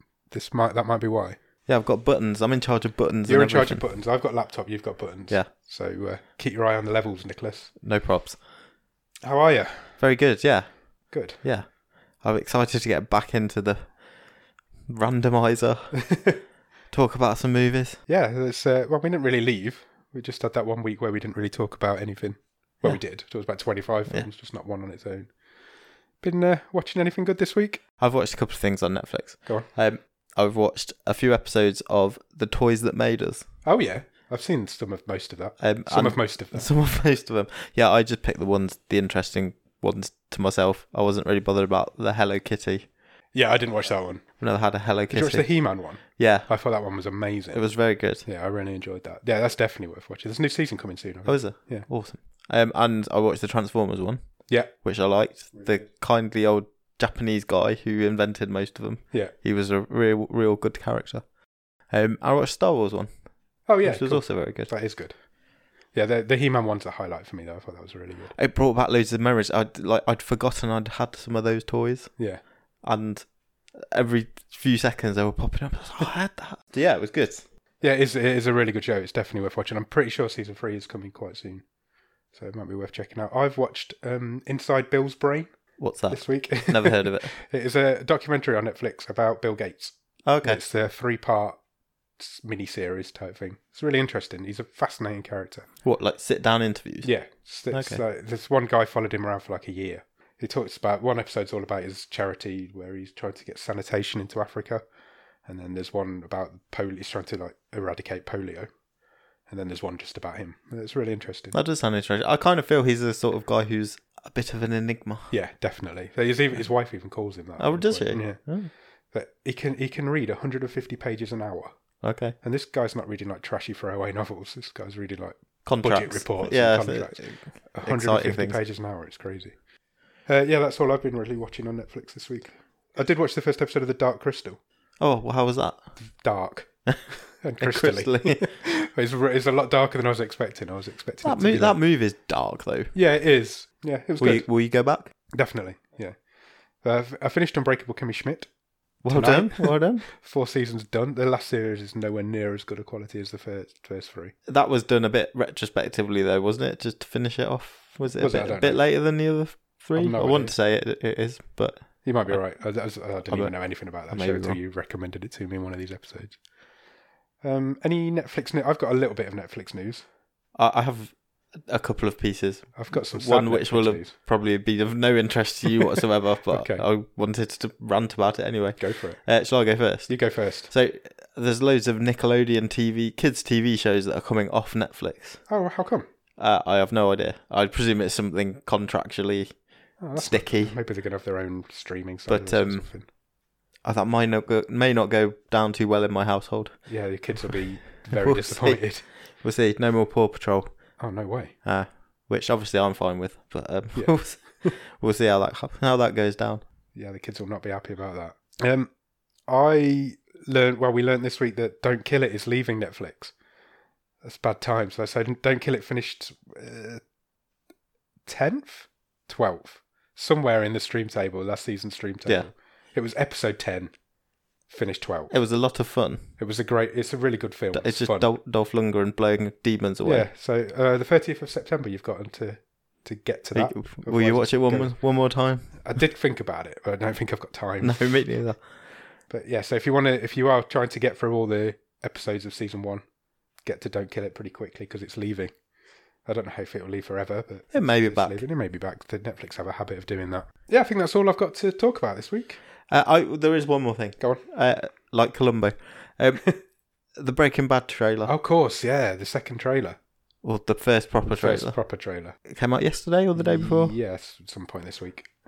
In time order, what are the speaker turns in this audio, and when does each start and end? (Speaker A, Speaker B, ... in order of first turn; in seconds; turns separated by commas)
Speaker A: 0.3-1.4, Speaker B: 1.7-3.8, Speaker A: 3.2-7.7, Speaker B: 7.8-8.4, Speaker A: 9.2-10.0, Speaker B: 10.0-14.0, Speaker A: 11.1-11.4, Speaker B: 14.9-15.9, Speaker A: 16.0-16.4, Speaker B: 16.9-18.0, Speaker A: 18.1-25.3, Speaker A: 26.2-27.8, Speaker B: 28.0-33.4, Speaker A: 33.6-36.7, Speaker B: 35.6-42.9, Speaker A: 43.3-44.2, Speaker B: 44.4-46.5, Speaker A: 45.1-47.6, Speaker B: 47.5-48.2, Speaker A: 48.2-51.9, Speaker B: 51.2-61.3, Speaker B: 61.9-63.2, Speaker A: 63.7-65.2, Speaker B: 63.8-64.7, Speaker A: 65.9-68.3, Speaker B: 68.3-72.1, Speaker B: 72.8-77.4, Speaker A: 77.8-81.6, Speaker A: 82.3-85.5, Speaker B: 85.8-87.3, Speaker A: 86.1-91.6, Speaker B: 90.2-90.6, Speaker A: 92.2-95.7, Speaker B: 95.8-97.1, Speaker A: 97.0-104.8, Speaker B: 97.7-98.0, Speaker A: 105.4-108.7, Speaker A: 109.5-111.6, Speaker B: 111.5-115.3, Speaker A: 115.3-118.5, Speaker B: 117.6-118.7, Speaker A: 119.1-121.7, Speaker B: 122.0-122.3, Speaker A: 122.4-129.6, Speaker B: 125.6-128.6, Speaker A: 130.3-134.6, Speaker B: 135.0-135.8, Speaker A: 136.0-141.8, Speaker B: 137.6-138.4, Speaker B: 141.2-142.9, Speaker A: 142.9-144.5, Speaker B: 144.2-145.1, Speaker A: 145.3-146.2, Speaker A: 146.8-148.5, Speaker B: 149.0-150.1, Speaker A: 149.1-154.3, Speaker B: 154.5-162.6, Speaker A: 158.2-158.8, Speaker A: 159.9-160.5, Speaker A: 162.0-166.4, Speaker B: 163.3-164.6, Speaker A: 167.4-170.1, Speaker B: 170.5-185.4, Speaker A: 172.7-174.1, Speaker A: 176.5-176.8, Speaker A: 178.8-179.2, Speaker A: 180.1-180.7, Speaker A: 185.5-186.1, Speaker B: 186.4-189.6, Speaker A: 190.0-193.1, Speaker B: 190.1-190.7, Speaker B: 192.3-192.9, Speaker B: 193.8-196.8, Speaker A: 196.8-199.1, Speaker B: 198.1-200.7, Speaker A: 201.0-201.5, Speaker B: 201.6-206.6, Speaker A: 203.9-204.7, Speaker A: 206.9-208.9, Speaker A: 209.5-213.3, Speaker A: 214.2-217.0, Speaker A: 218.2-223.9, Speaker A: 224.7-225.3, Speaker B: 225.3-226.3, Speaker A: 226.4-228.3, Speaker B: 227.7-230.3, Speaker A: 230.0-235.0, Speaker B: 233.5-235.8, Speaker A: 235.7-238.2, Speaker B: 237.8-238.6, Speaker A: 239.3-243.0, Speaker A: 243.6-245.5, Speaker A: 246.2-252.6, Speaker B: 247.7-248.4, Speaker B: 252.9-256.4, Speaker B: 257.1-258.3, Speaker A: 258.2-260.0, Speaker B: 260.4-261.8, Speaker A: 261.2-262.4, Speaker B: 262.4-264.0, Speaker A: 263.3-265.3